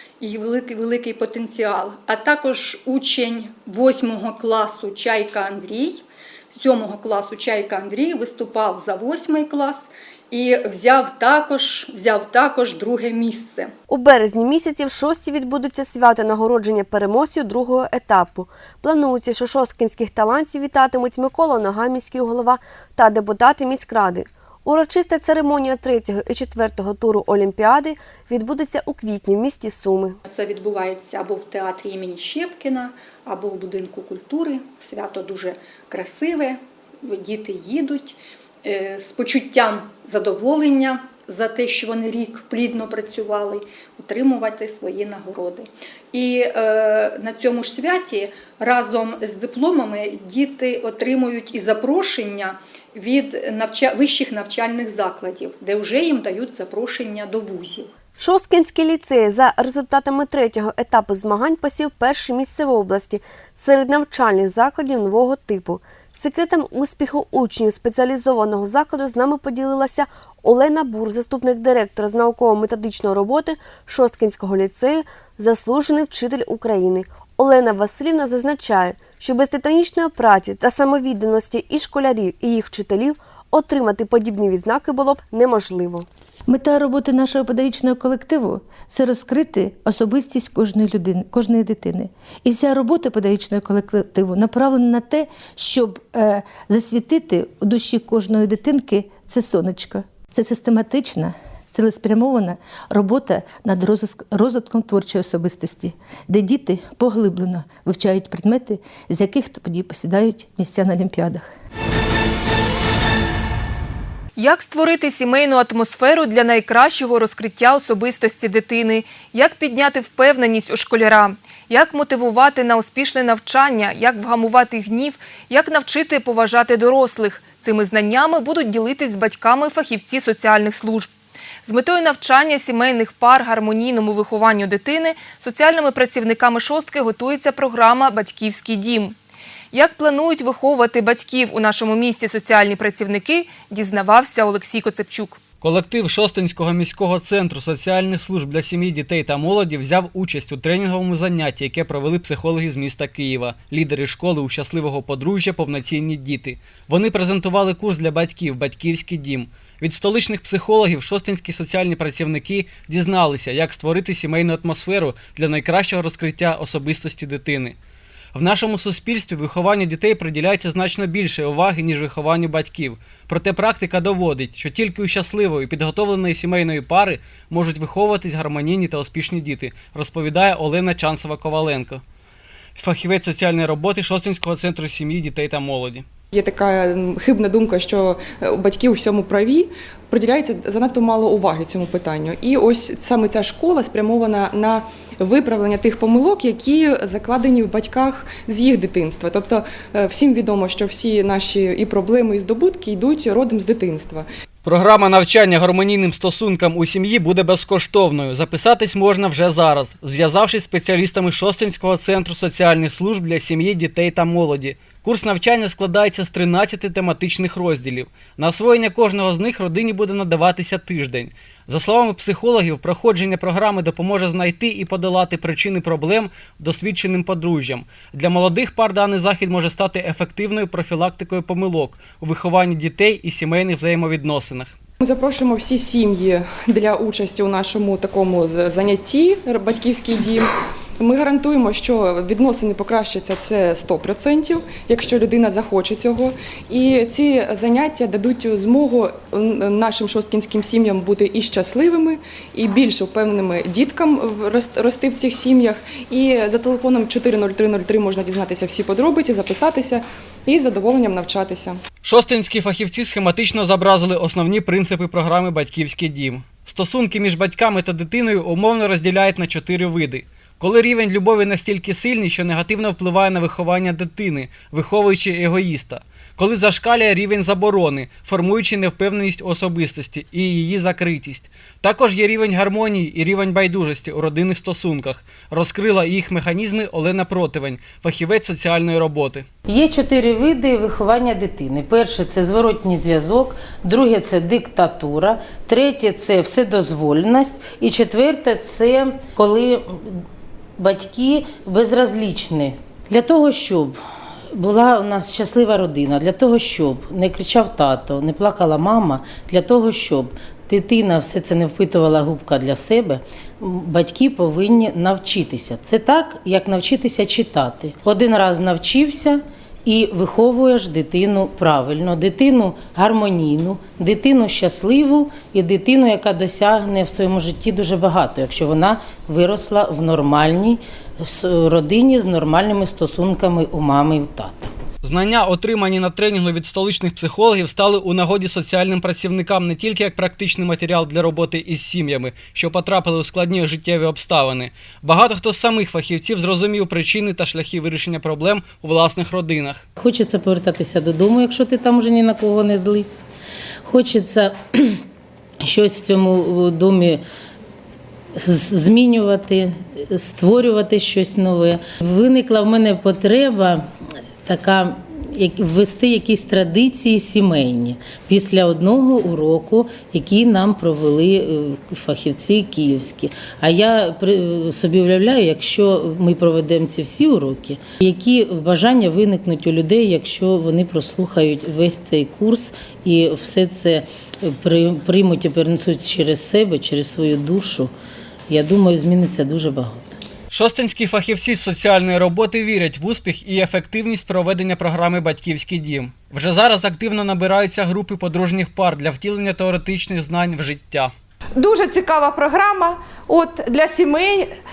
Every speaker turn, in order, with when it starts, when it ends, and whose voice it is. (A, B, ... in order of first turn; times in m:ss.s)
0:00.2-0:13.7 A
0:13.9-0:30.2 B
0:30.2-0:57.9 A
0:58.2-1:26.1 B
1:26.5-1:51.5 C
1:54.4-2:11.1 D
2:11.6-2:19.2 D
2:19.7-2:25.4 D
2:25.6-2:47.8 E
2:48.3-3:02.0 E
3:02.8-3:06.1 E
3:06.3-3:24.3 F
3:24.6-3:54.8 E
3:55.0-4:21.8 F
4:22.0-4:49.4 E
4:49.7-5:00.2 G
5:00.8-5:04.0 G
5:04.5-5:34.7 G
5:35.0-5:49.8 E
5:50.0-5:53.2 G
5:53.8-5:55.0 G
5:55.6-5:57.2 G
5:58.4-6:03.9 G
6:04.4-6:27.9 G
6:28.5-6:30.2 G
6:30.5-6:41.1 E
6:41.6-6:44.5 H